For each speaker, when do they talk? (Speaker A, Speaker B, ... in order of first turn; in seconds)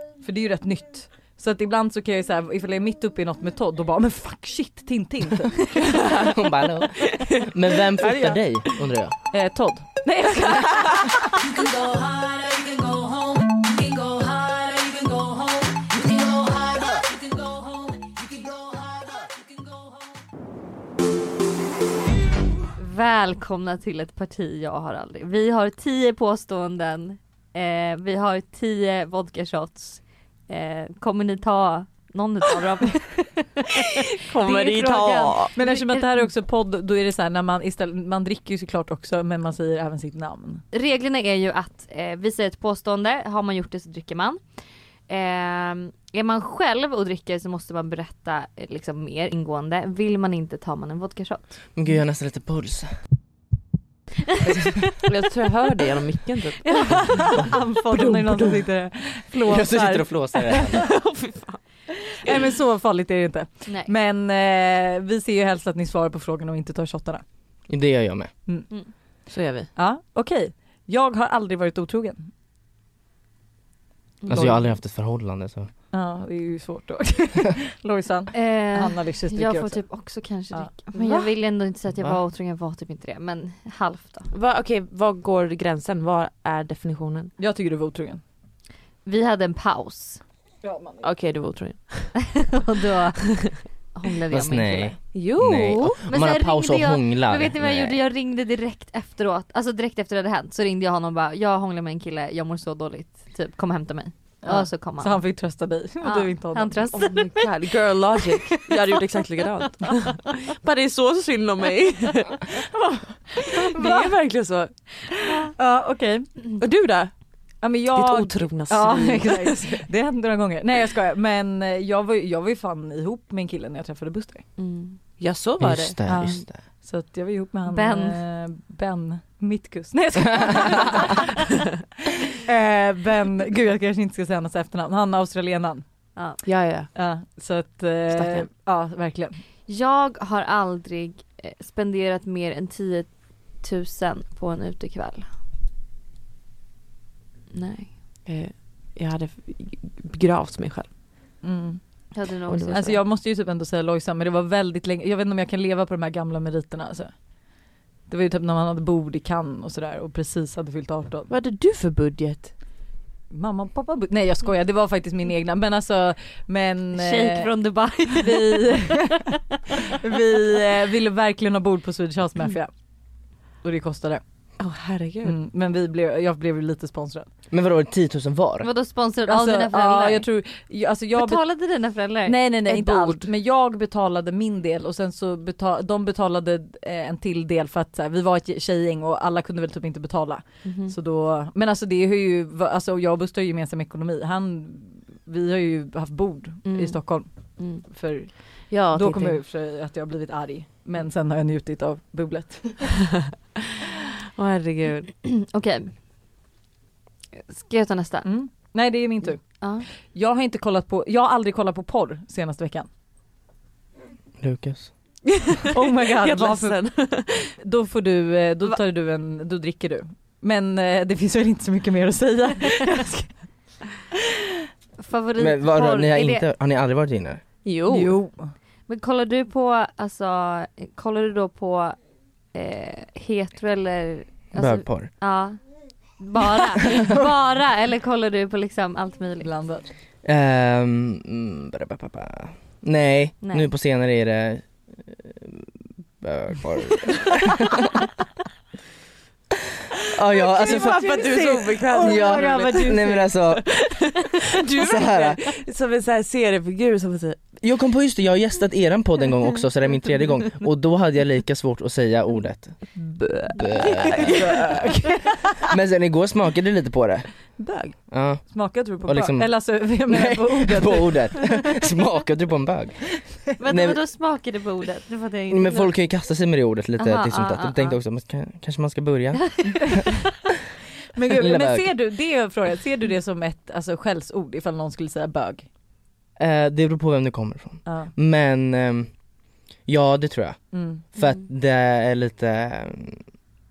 Speaker A: 0.2-5.8, 9.3-11.3, 35.5-40.6, 57.0-60.8, 62.1-67.2, 69.8-72.3, 74.3-74.6, 75.9-79.8, 87.4-88.2, 90.6-91.0, 104.4-106.9, 115.6-116.4, 117.6-124.5, 126.0-131.3, 132.3-135.8, 136.9-139.4, 151.4-152.1, 152.7-157.2, 158.1-161.3, 163.3-167.5, 168.2-169.3, 169.9-172.7, 173.6-174.2, 175.2-177.3, 179.3-181.4, 182.2-203.0, 208.2-212.9, 215.7-223.3, 227.9-228.5, 239.4-239.9, 250.8-253.4, 268.5-271.6, 281.1-285.7, 287.8-288.1, 290.7-291.0
Speaker B: 5.8-6.3, 8.0-8.8, 34.2-35.5, 55.0-57.3, 57.9-58.7, 60.5-61.6, 69.3-69.7, 80.9-81.3, 84.3-87.3, 91.0-92.5, 95.1-96.0, 106.9-112.7, 113.3-114.9, 116.6-117.2, 117.9-119.9, 125.2-126.2, 136.4-136.9, 138.1-138.5, 148.2-150.9, 152.5-153.0, 161.3-162.5, 174.6-175.3, 182.7-183.3, 198.7-199.4, 204.3-205.1, 215.5-217.4, 227.6-228.1, 250.4-257.5, 263.0-265.4, 267.6-268.0
Speaker C: 6.2-9.2, 51.8-52.9, 59.5-60.9, 67.7-68.3, 74.3-75.7, 94.3-98.0, 125.6-126.6, 177.5-178.7, 214.4-214.9, 225.4-227.4, 234.5-235.1, 240.2-247.8, 250.1-251.2, 251.9-253.8, 254.8-255.5, 257.6-262.9, 263.5-264.5, 265.7-274.0, 275.5-280.0, 281.3-281.9, 286.4-289.1, 289.9-293.2
Speaker D: 11.4-19.7
Speaker E: 22.8-36.3, 40.7-44.4, 45.1-51.6, 54.3-54.7, 56.6-57.2, 74.2-74.5, 78.3-84.3, 89.0-90.2, 92.2-95.0, 96.1-105.3, 106.0-108.9, 124.6-125.0, 127.7-128.2, 136.2-136.4, 139.7-145.3, 147.5-147.9, 152.1-152.9, 166.9-169.2, 178.6-180.3, 181.2-182.4, 196.7-197.8, 205.2-205.9, 207.5-208.3, 209.6-209.9, 225.0-226.5, 228.9-232.0, 232.5-235.6, 236.2-239.5, 243.4-243.7, 273.6-275.9, 277.0-277.9, 279.4-280.1